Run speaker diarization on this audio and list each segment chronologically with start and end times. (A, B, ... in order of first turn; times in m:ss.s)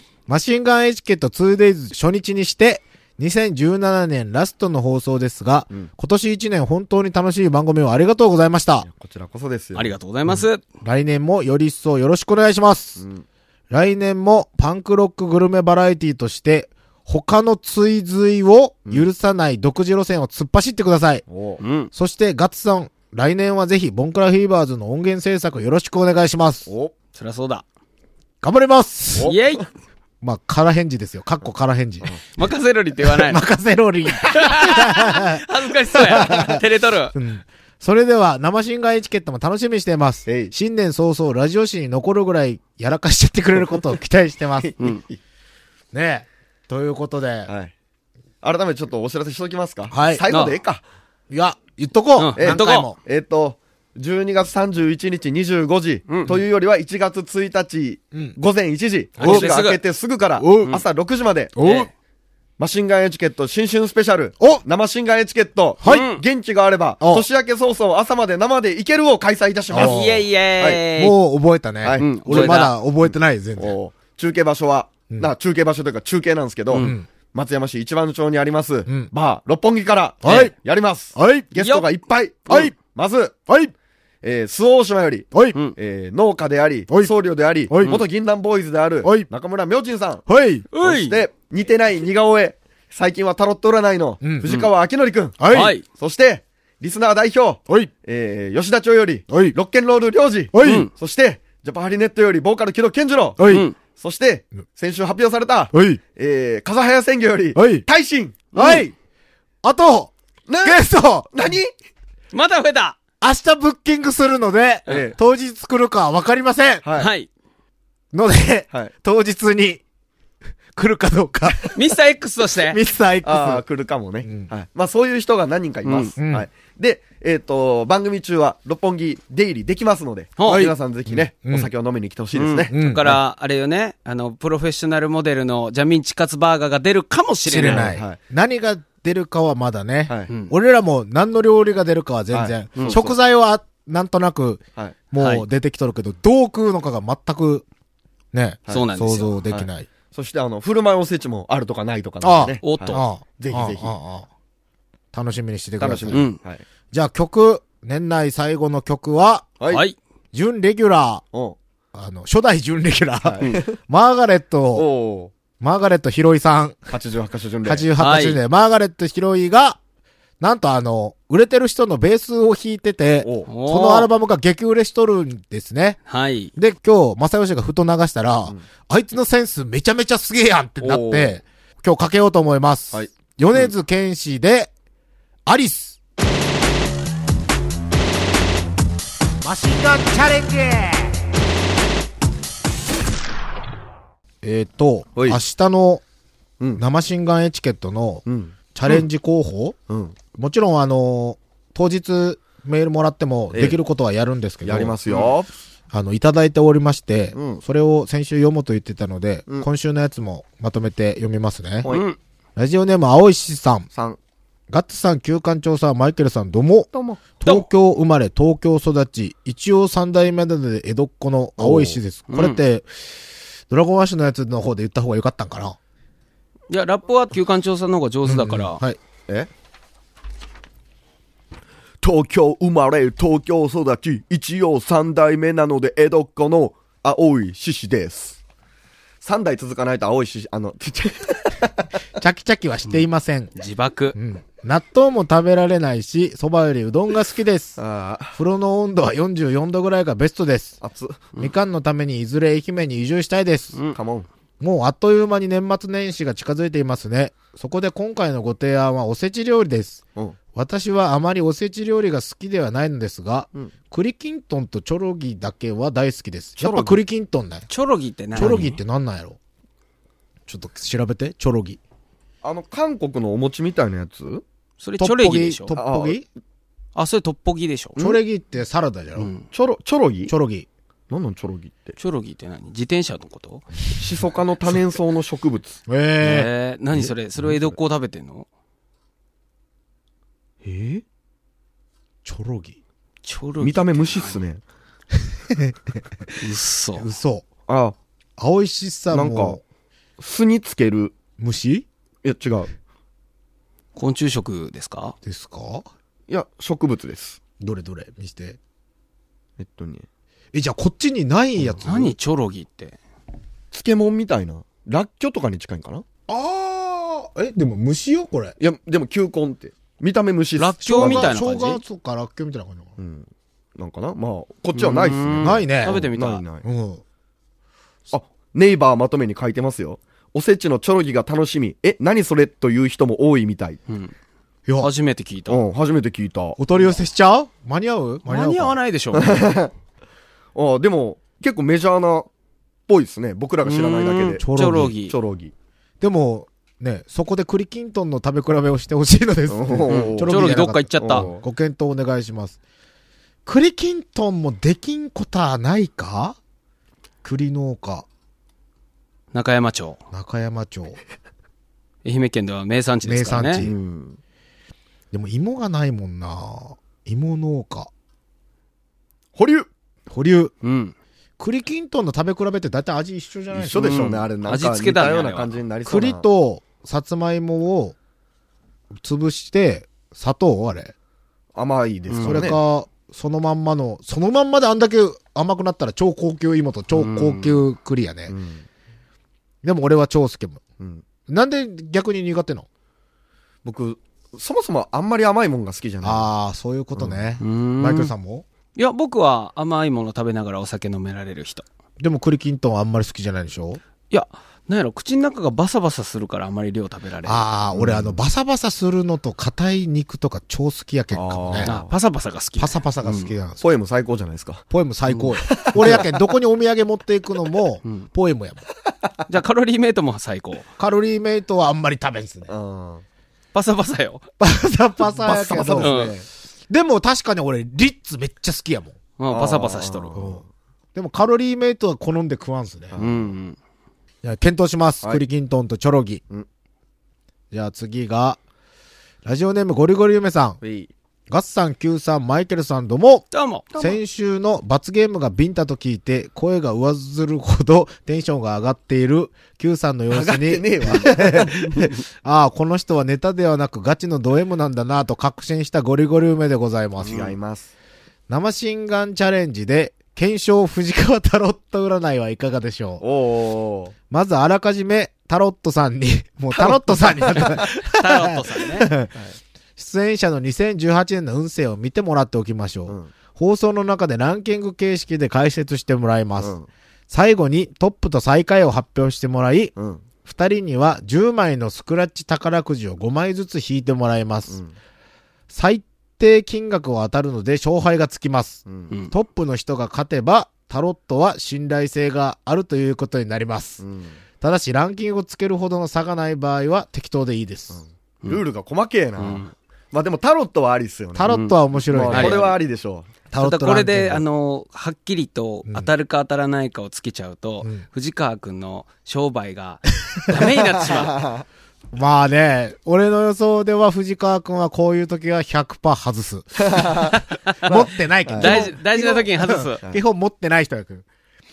0:00.3-0:08.9 A
0:08.8-0:09.9 B
0:09.8-0:10.6 C
0:10.3-0:13.0 A
0:13.0-0:13.2 B
0:13.7-0:21.2 A
0:21.3-0:21.6 B
0:21.6-0:21.9 C
0:21.9-0:26.7 A
0:26.7-0:26.9 B
0:27.2-0:27.6 C
0:28.4-0:29.3 A
0:29.2-0:29.5 B
0:29.2-0:29.7 C
0:30.2-0:32.1 A
0:32.4-0:33.4 C
0:33.1-0:36.6 A
0:34.2-0:37.1 C
0:37.1-0:44.7 A
0:40.3-0:40.5 B
0:44.6-0:45.2 B
0:45.9-0:47.5 A
0:47.5-0:47.7 B
0:48.4-0:50.8 B
0:49.9-0:50.2 A
0:50.3-0:50.6 C
0:51.3-0:53.0 A
0:52.2-0:52.9 C
0:52.4-1:01.7 B
0:56.1-0:56.4 C
0:59.2-0:59.8 C
0:59.2-0:59.5 A
1:00.4-1:00.8 A
1:01.6-1:01.9 A
1:01.6-1:01.9 C
1:02.6-1:10.0 B
1:05.8-1:06.2 C
1:07.0-1:07.3 A
1:09.7-1:10.2 A
1:09.8-1:11.1 C
1:10.9-1:13.8 A
1:11.8-1:12.7 B
1:12.0-1:12.7 C
1:13.6-1:23.4 B
1:16.7-1:17.0 C
1:16.7-1:17.1 A
1:20.2-1:20.5 A
1:21.2-1:21.5 A
1:21.6-1:21.9 C
1:24.2-1:30.2 B
1:25.3-1:25.6 A
1:27.7-1:28.0 A
1:29.0-1:29.3 A
1:30.3-1:30.7 A
1:30.7-1:31.2 C
1:30.8-1:48.6 B
1:34.2-1:34.5 A
1:35.4-1:35.8 A
1:35.5-1:35.8 C
1:39.3-1:39.6 A
1:40.5-1:40.9 A
1:40.6-1:40.9 C
1:43.4-1:43.7 A
1:43.4-1:43.8 C
1:45.7-1:46.0 A
1:47.6-1:47.8 A
1:48.5-1:48.9 A
1:48.6-1:48.8 C
1:49.6-1:50.1 A
1:50.5-1:51.7 B
1:50.6-1:51.3 A
1:52.3-1:53.0 C
1:53.2-1:56.8 A
1:54.9-1:55.2 B
1:56.8-1:57.1 B
1:57.0-1:57.3 C
1:58.1-1:59.8 A
2:00.8-2:01.7 A
2:01.7-2:02.8 C
2:02.6-2:03.6 A
2:03.2-2:12.7 B
2:04.2-2:04.5 A
2:05.8-2:06.1 C
2:06.2-2:06.5 A
2:10.4-2:10.7 C
2:10.5-2:11.7 A
2:12.4-2:17.9 C
2:12.7-2:13.2 A
2:17.5-2:27.6 A
2:17.6-2:18.2 B
2:22.3-2:23.2 B
2:25.2-2:25.4 C
2:28.3-2:29.9 A
2:28.7-2:29.4 C
2:29.5-2:34.0 B
2:32.2-2:34.3 A
2:32.6-2:33.0 C
2:35.1-2:36.2 A
2:35.8-2:36.6 B
2:36.1-2:36.4 C
2:36.9-2:39.5 A
2:39.7-2:40.0 C
2:40.3-2:41.2 A
2:41.9-2:44.9 A
2:43.2-2:43.8 B
2:44.8-2:45.3 B
2:45.6-2:46.9 A
2:46.9-2:47.9 B
2:47.6-2:49.8 A
2:48.0-2:48.4 C
2:50.4-2:56.0 A
2:53.2-2:53.5 B
2:53.5-2:54.1 C
2:56.1-2:56.5 C
2:56.6-3:04.7 A
3:00.8-3:01.4 B
3:02.9-3:03.7 B
3:05.5-3:06.0 A
3:09.4-3:11.3 A
3:14.4-3:16.0 A
3:15.2-3:15.4 B
3:16.8-3:19.8 A
3:18.3-3:19.0 B
3:19.9-3:20.2 B
3:20.4-3:25.0 A
3:23.5-3:23.8 B
3:24.6-3:25.5 B
3:25.9-3:31.9 A
3:27.4-3:27.6 B
3:31.9-3:32.2 C
3:32.6-3:33.9 A
3:33.9-3:34.2 B
3:34.7-3:43.1 A
3:36.9-3:37.2 B
3:41.6-3:42.0 B
3:42.3-3:42.6 C
3:43.7-3:45.8 A
3:46.7-3:48.8 C
3:48.2-3:49.0 A
3:52.0-3:58.4 B
3:59.2-4:01.9 B
4:02.2-4:03.5 A
4:03.6-4:04.2 C
4:04.2-4:07.8 A
4:07.8-4:08.4 B
4:08.4-4:10.8 A
4:10.8-4:11.3 B
4:11.4-4:13.8 A
4:13.9-4:14.3 B
4:14.6-4:20.0 A
4:20.5-4:27.7 A
4:26.6-4:27.0 B
4:27.7-4:28.8 C
4:28.4-4:29.4 A
4:30.5-4:31.8 A
4:32.4-4:34.4 B
4:34.8-4:35.7 C
4:35.0-4:36.2 A
4:35.7-4:36.2 B
4:37.0-4:38.0 C
4:38.0-4:39.3 A
4:39.2-4:39.4 C
4:39.5-4:40.3 B
4:40.3-4:40.7 A
4:41.1-4:42.0 B
4:42.0-4:43.6 C
4:44.0-4:45.8 B
4:45.9-4:46.5 A
4:46.2-4:48.5 C
4:50.6-4:51.0 B
4:52.2-4:52.8 A
4:53.2-4:54.4 C
4:53.6-4:54.6 B
4:55.2-4:56.4 A
4:56.4-4:57.1 C
4:57.0-4:57.5 A
4:57.7-4:58.0 B
4:58.4-4:59.6 A
4:59.1-4:59.6 B
5:00.2-5:01.1 B
5:01.4-5:01.9 A
5:02.2-5:02.7 B
5:04.0-5:05.2 C
5:05.2-5:05.9 A
5:06.3-5:07.4 B
5:07.6-5:08.6 A
5:09.6-5:10.1 B
5:10.5-5:12.2 A
5:11.8-5:13.0 C
5:13.7-5:16.0 B
5:16.3-5:18.6 A
5:18.6-5:21.4 B
5:20.6-5:21.8 C
5:20.9-5:22.9 A
5:23.0-5:26.6 B
5:24.8-5:26.4 C
5:25.4-5:26.1 A
5:26.6-5:27.0 A
5:28.1-5:33.8 B
5:33.9-5:34.1 C
5:34.8-5:35.6 C
5:35.5-5:37.0 B
5:36.6-5:38.8 A
5:38.3-5:39.4 C
5:39.1-5:39.7 B
5:40.6-5:42.3 B
5:42.9-5:44.4 B
5:43.6-5:45.2 C
5:44.4-5:45.0 A
5:45.1-5:45.5 B
5:46.0-5:52.6 A
5:49.5-5:50.4 B
5:49.9-5:51.3 C
5:51.0-5:51.4 B
5:53.5-5:56.4 A
5:57.2-5:58.1 A
5:59.3-6:00.0 C
6:00.1-6:01.0 A
6:02.0-6:03.7 C
6:03.1-6:03.8 A
6:03.6-6:04.2 B
6:05.1-6:07.9 A
6:09.4-6:09.7 B
6:10.1-6:10.5 A
6:10.6-6:10.9 C
6:11.4-6:14.0 A
6:13.5-6:16.2 B
6:13.8-6:15.5 C
6:15.9-6:18.0 A
6:19.0-6:20.9 A
6:21.6-6:22.6 B
6:22.1-6:22.5 C
6:22.2-6:28.3 A
6:26.9-6:27.6 C
6:28.3-6:28.6 B
6:29.6-6:30.6 A
6:31.3-6:32.7 A
6:33.6-6:36.3 B
6:36.0-6:38.4 A
6:37.0-6:37.2 B
6:37.4-6:38.1 C
6:38.8-6:41.6 C
6:42.0-6:43.8 A
6:44.1-6:47.4 C
6:47.2-6:51.7 A
6:47.7-6:48.2 B
6:51.1-6:51.9 B
6:51.6-6:53.3 C
6:52.6-6:53.6 A
6:53.6-6:54.6 B
6:54.7-6:58.6 A
6:55.1-6:55.4 C
6:55.4-6:56.2 B
6:59.3-7:00.7 C
7:00.8-7:02.5 A
7:02.5-7:03.0 B
7:03.5-7:04.2 C
7:04.4-7:09.0 A
7:05.2-7:06.1 B
7:05.8-7:06.1 C
7:09.2-7:10.2 C
7:09.3-7:10.4 B
7:10.2-7:10.4 A
7:11.0-7:13.0 A
7:12.9-7:13.3 B
7:13.0-7:13.6 C
7:14.2-7:16.2 A
7:17.5-7:18.4 A
7:19.2-7:20.6 A
7:20.6-7:20.9 B
7:21.3-7:37.3 A
7:23.3-7:23.7 C
7:30.1-7:31.8 B
7:37.0-7:37.7 B
7:38.3-7:43.0 A
7:43.0-7:43.9 B
7:44.1-7:49.1 A
7:46.6-7:47.7 B
7:47.8-7:48.9 C
7:49.8-7:56.5 A
7:56.4-7:56.7 B
7:57.1-7:59.7 A
7:59.8-8:00.0 B
8:00.2-8:04.6 A
8:05.5-8:13.8 A
8:08.7-8:08.9 B
8:13.8-8:14.2 B
8:14.4-8:17.8 A
8:17.7-8:21.4 B
8:19.2-8:19.5 C
8:21.2-8:22.5 A
8:21.3-8:22.5 C
8:21.9-8:23.1 B
8:23.3-8:24.2 A
8:23.4-8:31.2 C
8:30.4-8:31.5 B
8:31.9-8:41.0 A
8:36.6-8:38.7 B
8:38.4-8:39.8 C